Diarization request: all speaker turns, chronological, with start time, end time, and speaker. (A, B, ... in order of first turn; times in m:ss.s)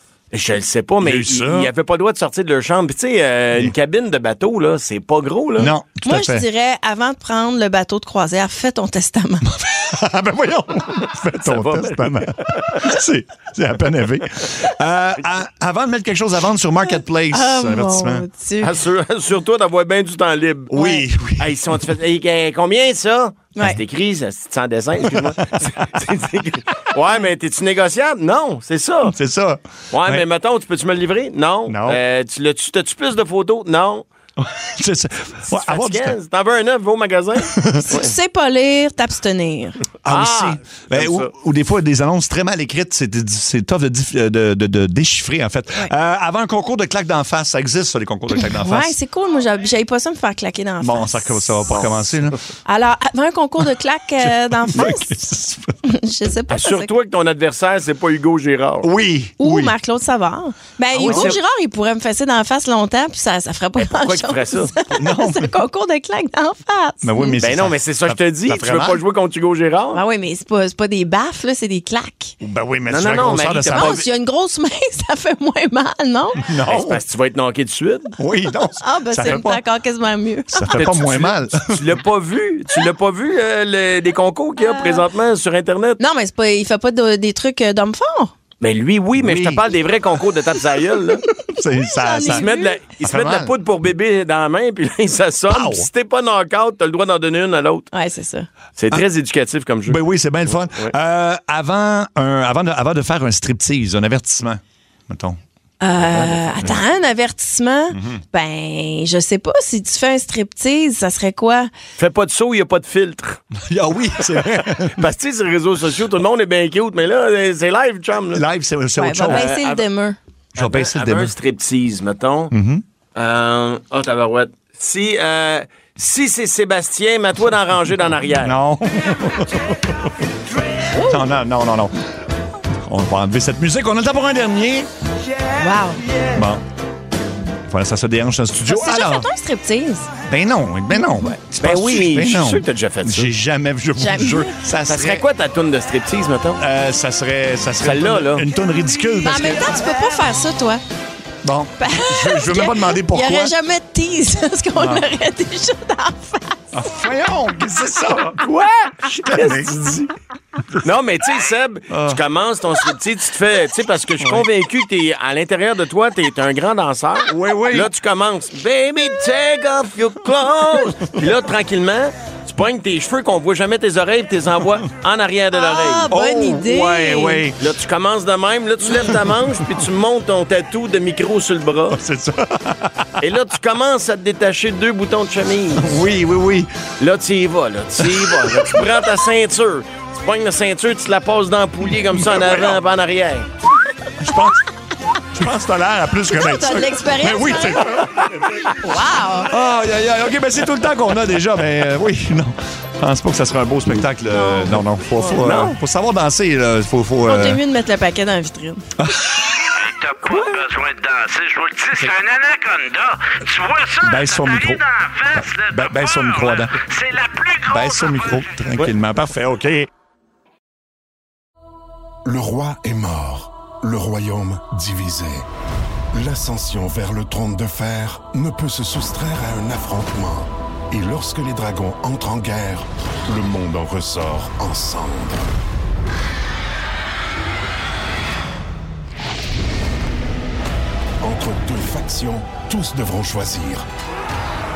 0:00.3-0:05.7 A
0:01.0-0:01.7 B
0:05.6-0:06.4 B
0:06.0-0:09.5 C
0:09.4-0:18.3 B
0:11.4-0:12.8 A
0:17.3-0:18.7 C
0:18.6-0:29.1 A
0:20.7-0:21.8 B
0:20.8-0:21.0 C
0:25.0-0:25.4 B
0:29.0-0:30.2 B
0:29.9-0:34.0 A
0:31.7-0:32.0 B
0:34.4-0:36.2 B
0:35.5-0:38.1 A
0:37.4-0:37.9 B
0:37.8-0:39.8 C
0:40.0-0:49.0 B
0:40.0-0:41.3 A
0:48.4-0:52.1 C
0:50.8-0:52.4 B
0:52.6-0:55.1 C
0:54.2-0:55.7 B
0:55.8-0:56.9 C
0:56.5-0:58.9 A
0:58.8-0:59.7 B
0:59.4-1:07.5 C
1:00.9-1:01.4 B
1:01.0-1:01.4 A
1:03.8-1:04.7 A
1:04.9-1:05.5 B
1:07.0-1:09.0 B
1:07.4-1:10.0 A
1:09.9-1:12.4 C
1:12.4-1:14.0 B
1:12.9-1:14.0 A
1:13.7-1:16.5 C
1:16.3-1:17.0 B
1:16.6-1:18.1 A
1:18.2-1:19.6 B
1:18.8-1:20.9 C
1:20.5-1:21.9 B
1:20.7-1:26.0 A
1:24.6-1:25.0 C
1:26.0-1:28.3 C
1:28.6-1:31.2 A
1:29.2-1:29.6 B
1:31.3-1:32.4 B
1:31.9-1:32.8 C
1:32.2-1:37.9 A
1:33.1-1:33.5 B
1:35.5-1:35.9 B
1:37.9-1:38.5 C
1:38.8-1:40.9 A
1:39.8-1:45.4 B
1:45.8-1:51.7 C
1:46.0-1:46.8 A
1:47.9-1:48.2 B
1:52.0-1:53.4 A
1:53.5-1:55.0 B
1:54.2-1:58.4 A
1:58.3-1:59.5 B
1:59.0-2:00.2 C
1:59.2-1:59.8 A
2:00.5-2:02.5 A
2:00.6-2:01.3 B
2:02.5-2:02.8 B
2:03.1-2:08.5 A
2:08.4-2:10.0 B
2:10.9-2:11.2 C
2:11.0-2:14.9 B
2:15.6-2:16.0 C
2:16.3-2:16.6 B
2:17.7-2:19.3 B
2:18.6-2:20.1 C
2:20.3-2:25.2 B
2:21.6-2:23.3 A
2:24.0-2:24.6 C
2:24.8-2:26.6 A
2:26.6-2:30.1 B
2:27.8-2:28.4 A
2:29.2-2:30.8 C
2:31.4-2:33.5 B
2:31.8-2:36.8 C
2:34.7-2:35.1 B
2:36.7-2:38.5 B
2:38.2-2:40.1 A
2:39.2-2:40.1 B
2:40.6-2:40.9 B
2:40.8-2:56.1 A
2:41.9-2:42.2 B
2:44.2-2:44.5 B
2:47.3-2:47.9 B
2:55.5-2:57.5 C
2:56.1-2:57.6 B
2:57.6-3:02.0 A
3:01.9-3:03.2 B
3:03.2-3:06.0 A
3:05.8-3:06.9 B
3:07.0-3:13.5 A
3:08.0-3:08.7 B
3:12.2-3:12.8 B
3:14.2-3:14.6 B
3:15.3-3:18.7 B
3:16.3-3:18.0 C
3:18.8-3:19.5 C
3:19.4-3:27.6 B
3:25.3-3:25.8 A
3:27.2-3:28.8 C
3:29.0-3:29.6 B
3:30.0-3:30.7 A
3:30.0-3:37.8 D
3:34.0-3:36.8 B
3:37.6-3:39.9 B
3:42.2-3:45.5 E
3:46.1-3:55.5 E
4:01.2-4:03.9 E